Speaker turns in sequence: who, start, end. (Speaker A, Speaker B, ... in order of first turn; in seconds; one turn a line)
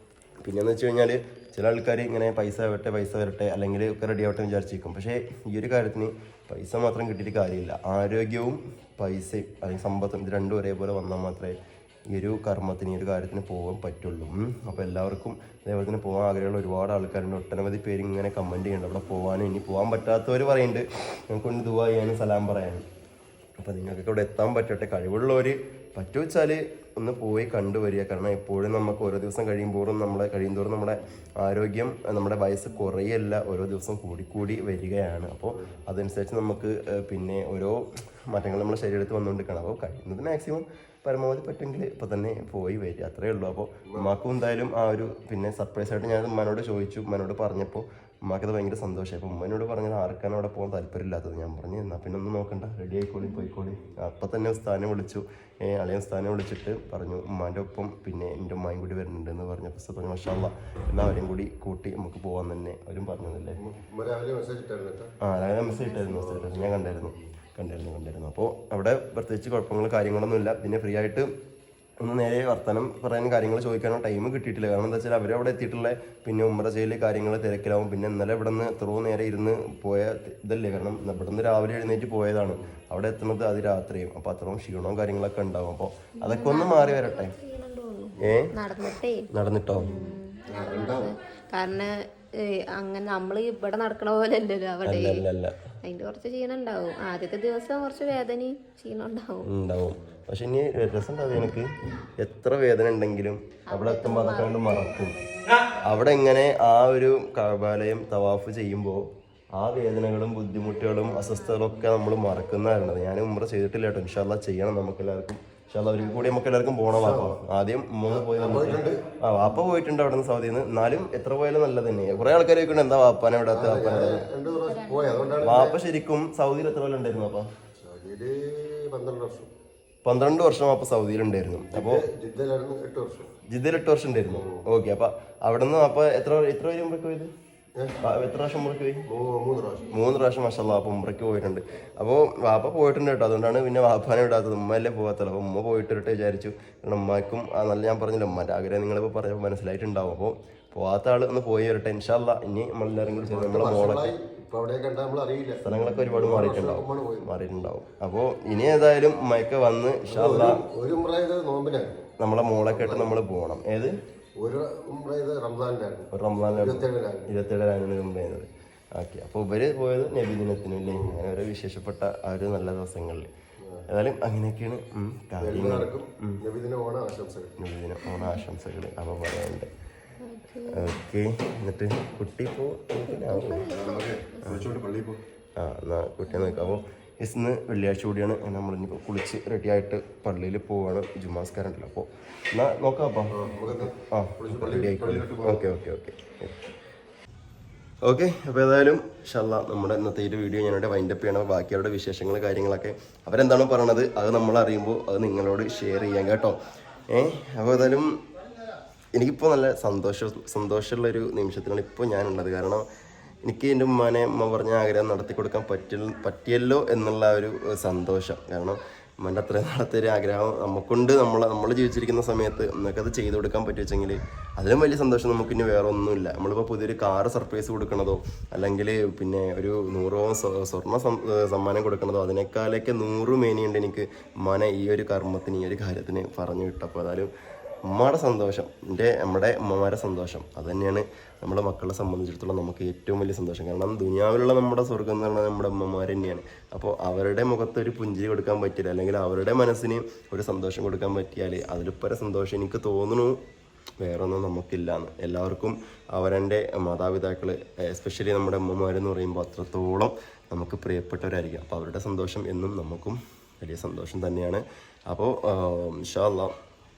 Speaker A: 0.4-11.6
Speaker A: 12.1-22.9
Speaker A: 23.6-63.6
Speaker B: 63.6-65.1
Speaker A: 65.2-71.3
Speaker B: 66.1-66.8
Speaker A: 72.0-87.3
Speaker C: 86.2-95.3
Speaker A: 88.2-88.5
Speaker A: 89.3-90.0
Speaker B: 90.5-91.2
Speaker A: 94.8-95.5
Speaker C: 95.8-99.5
Speaker A: 99.5-105.2
Speaker C: 103.7-105.8
Speaker A: 105.8-124.3
Speaker B: 116.9-117.4
Speaker B: 118.1-119.0
Speaker B: 123.5-125.8
Speaker C: 124.5-125.4
Speaker A: 125.4-127.5
Speaker B: 127.8-129.5
Speaker A: 130.1-132.1
Speaker B: 131.7-133.3
Speaker A: 133.5-137.3
Speaker B: 134.3-134.6
Speaker B: 137.8-138.0
Speaker A: 138.0-139.0
Speaker B: 139.1-140.0
Speaker A: 139.9-154.1
Speaker B: 153.2-157.2
Speaker A: 155.6-160.6
Speaker B: 160.1-162.1
Speaker A: 162.2-163.9
Speaker B: 162.7-163.1
Speaker B: 164.4-167.3
Speaker A: 166.1-173.3
Speaker B: 170.9-171.2
Speaker A: 173.9-176.4
Speaker B: 175.4-177.6
Speaker A: 177.6-179.7
Speaker C: 178.0-178.4
Speaker C: 180.2-181.0
Speaker A: 180.7-183.7
Speaker C: 183.1-184.6
Speaker B: 183.7-185.2
Speaker A: 184.4-184.7
Speaker A: 185.6-196.7
Speaker C: 186.3-186.8
Speaker B: 193.3-195.8
Speaker A: 198.0-206.6
Speaker A: 207.1-208.2
Speaker A: 209.2-212.9
Speaker A: 213.4-237.3
Speaker A: 237.9-253.4
Speaker A: 254.0-266.5